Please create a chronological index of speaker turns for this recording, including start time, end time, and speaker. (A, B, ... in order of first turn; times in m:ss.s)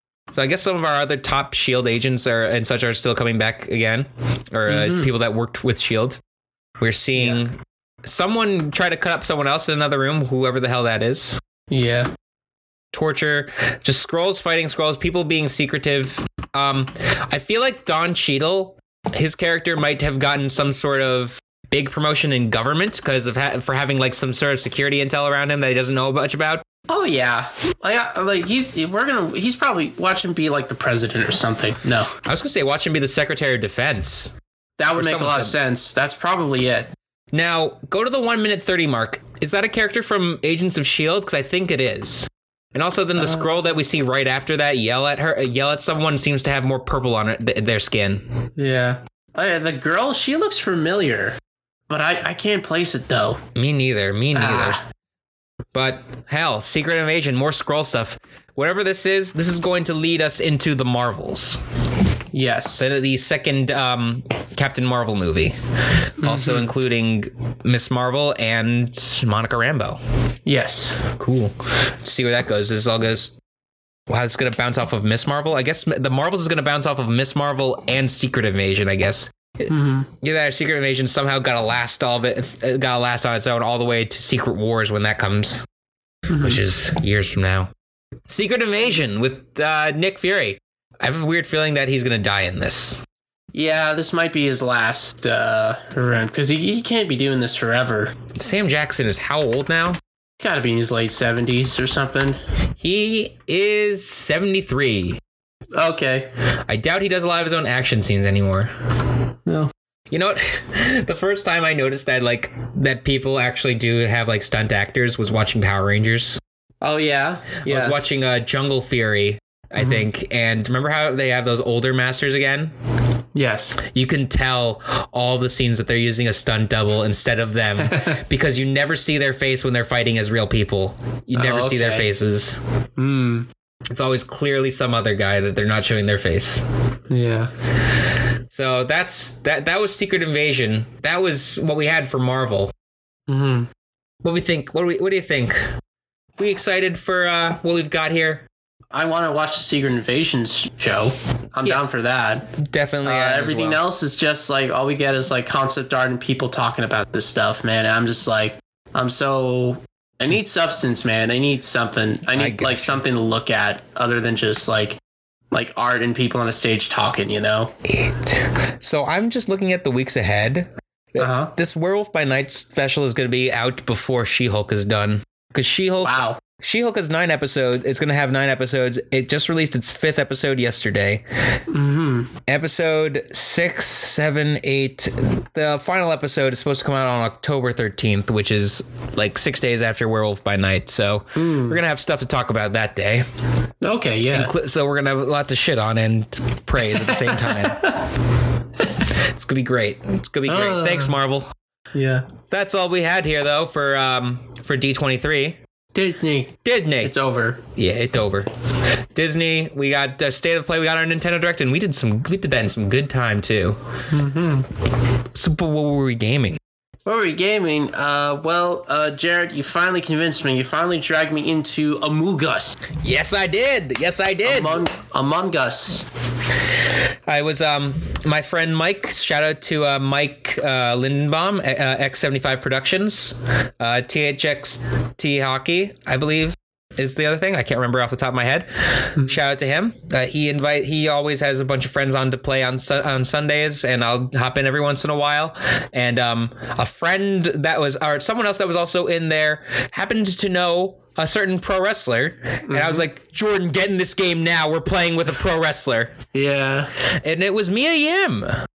0:00.3-0:06.2 A
0:04.7-0:05.1 B
0:06.8-0:11.4 A
0:07.2-0:07.4 B
0:11.7-0:12.1 B
0:12.9-0:26.6 A
0:26.9-0:32.1 B
0:32.2-0:34.4 A
0:34.8-0:36.9 B
0:34.9-0:35.6 A
0:37.3-0:48.2 A
0:43.2-0:43.5 B
0:48.6-0:51.4 B
0:51.9-0:53.4 B
0:53.6-0:54.8 A
0:54.4-0:54.8 B
0:55.7-1:01.6 A
1:02.3-1:02.9 B
1:02.8-1:10.0 A
1:06.2-1:06.7 B
1:10.5-1:11.0 B
1:11.0-1:13.4 A
1:14.1-1:25.6 A
1:19.7-1:20.1 B
1:26.3-1:26.6 B
1:26.4-1:27.7 A
1:28.3-1:33.0 A
1:33.5-1:38.2 B
1:38.4-1:40.0 A
1:40.4-1:42.4 B
1:42.8-1:45.2 A
1:45.8-1:46.3 B
1:46.7-1:48.7 A
1:49.5-1:49.7 B
1:50.1-1:56.4 A
1:56.8-1:58.0 B
1:57.6-2:02.7 A
1:59.8-2:00.1 B
2:03.4-2:03.8 B
2:03.8-2:12.6 A
2:07.8-2:08.2 B
2:11.4-2:12.1 B
2:13.0-2:13.5 B
2:13.9-2:16.6 A
2:17.1-2:17.5 B
2:17.9-2:22.7 A
2:23.3-2:23.7 B
2:24.2-2:25.6 A
2:26.4-2:28.5 A
2:28.9-2:32.5 B
2:32.5-2:33.8 A
2:33.0-2:45.0 B
2:42.3-2:43.0 A
2:45.5-2:47.7 B
2:47.8-3:01.2 A
2:51.2-2:51.5 B
2:56.0-2:56.4 B
3:01.7-3:02.3 B
3:02.5-3:13.3 A
3:11.4-3:11.8 B
3:13.8-3:14.5 B
3:14.3-3:18.0 A
3:16.9-3:18.1 B
3:19.1-3:21.5 A
3:20.5-3:21.2 B
3:21.9-3:22.3 B
3:22.4-3:25.6 A
3:25.9-3:27.6 B
3:26.6-3:28.5 A
3:29.1-3:33.8 A
3:34.1-3:34.7 B
3:35.0-3:36.6 A
3:37.1-3:42.8 B
3:43.0-3:44.8 A
3:44.4-3:46.1 B
3:46.8-4:16.2 A
4:12.7-4:13.0 B
4:16.3-4:16.9 B
4:17.0-4:18.6 A